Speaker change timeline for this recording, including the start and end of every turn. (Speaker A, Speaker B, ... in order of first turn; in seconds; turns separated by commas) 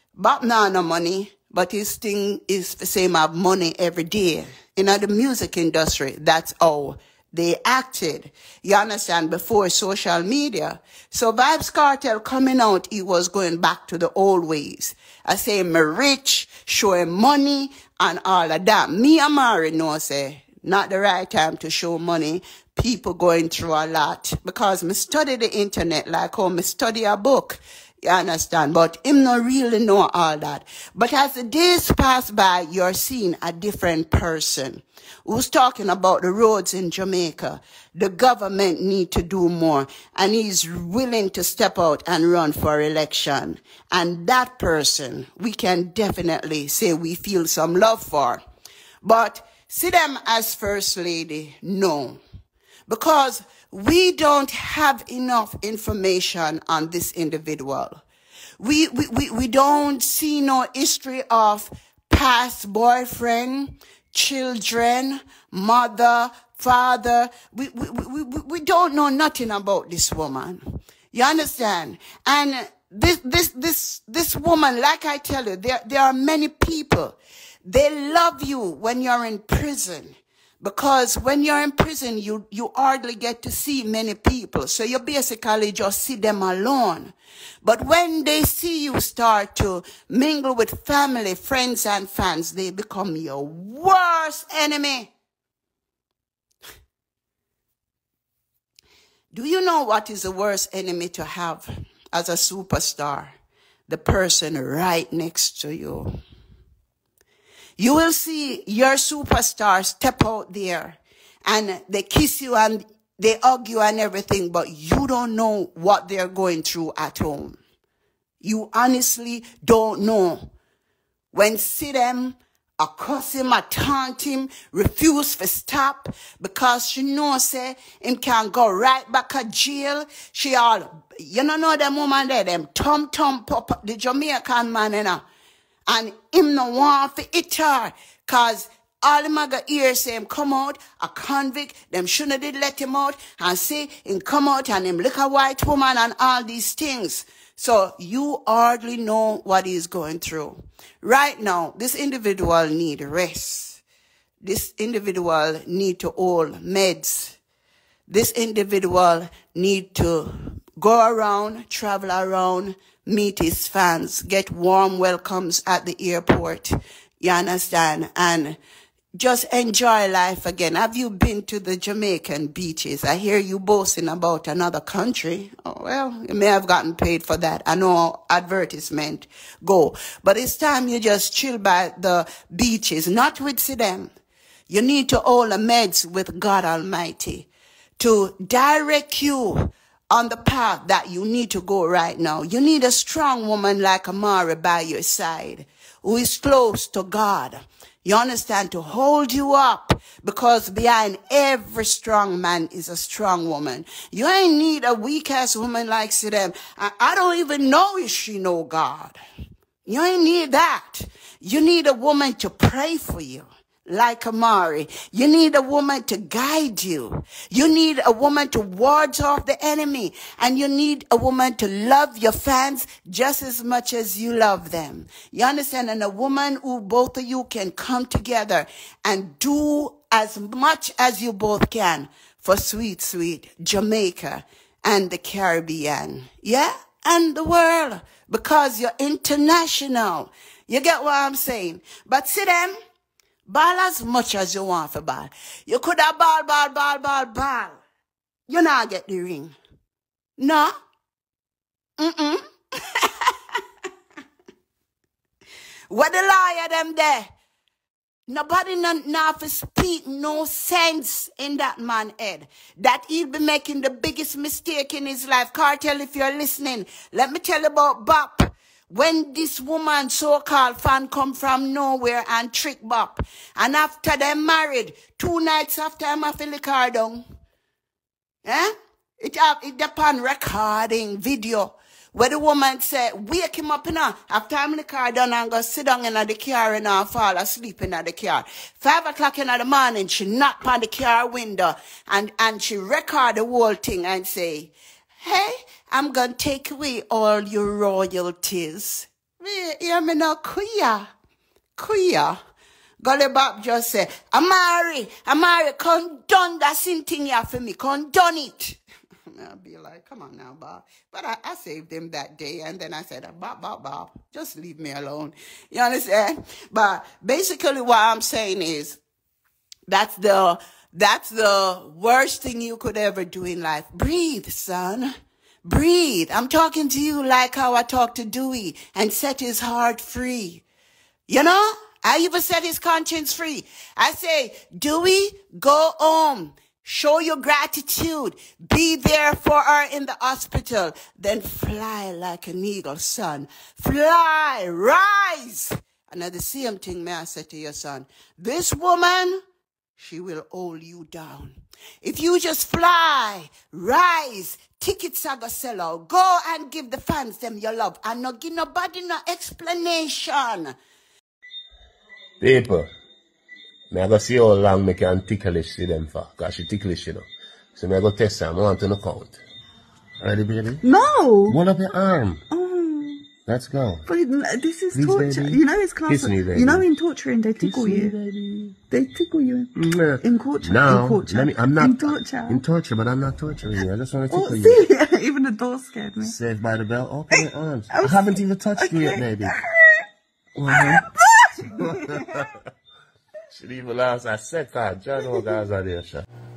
Speaker A: 0.2-48.4, Speaker A: 49.0-52.2, Speaker A: 52.9-58.0, Speaker A: 58.6-95.1, Speaker A: 99.3-103.3, Speaker A: 103.9-106.1, Speaker A: 107.8-117.6, Speaker A: 118.4-120.5, Speaker A: 121.3-135.2, Speaker A: 135.9-153.8, Speaker A: 154.4-157.4, Speaker A: 158.1-168.6, Speaker A: 169.2-184.1, Speaker A: 184.7-209.2, Speaker A: 209.8-242.8, Speaker A: 243.5-247.8, Speaker A: 248.5-249.6, Speaker A: 250.4-250.7, Speaker A: 252.0-252.4, Speaker A: 253.0-253.3, Speaker A: 255.9-257.3, Speaker A: 258.3-277.2, Speaker A: 278.4-301.1, Speaker A: 301.8-302.4, Speaker A: 303.0-308.8, Speaker A: 309.4-319.0, Speaker A: 319.9-325.1, Speaker A: 325.6-330.6, Speaker A: 331.3-349.4, Speaker A: 350.0-360.7, Speaker B: 362.4-362.9, Speaker B: 363.9-369.4, Speaker B: 370.2-370.8, Speaker C: 370.8-371.6, Speaker B: 371.5-372.4, Speaker C: 372.5-373.3, Speaker B: 373.4-374.1, Speaker C: 374.1-378.1, Speaker B: 374.9-376.9, Speaker B: 377.6-378.8, Speaker C: 378.9-382.6, Speaker B: 379.8-384.9, Speaker C: 384.3-386.4, Speaker B: 386.2-389.6, Speaker C: 387.3-390.0, Speaker B: 390.6-391.0, Speaker C: 390.7-392.2, Speaker B: 391.8-392.5, Speaker B: 393.5-396.3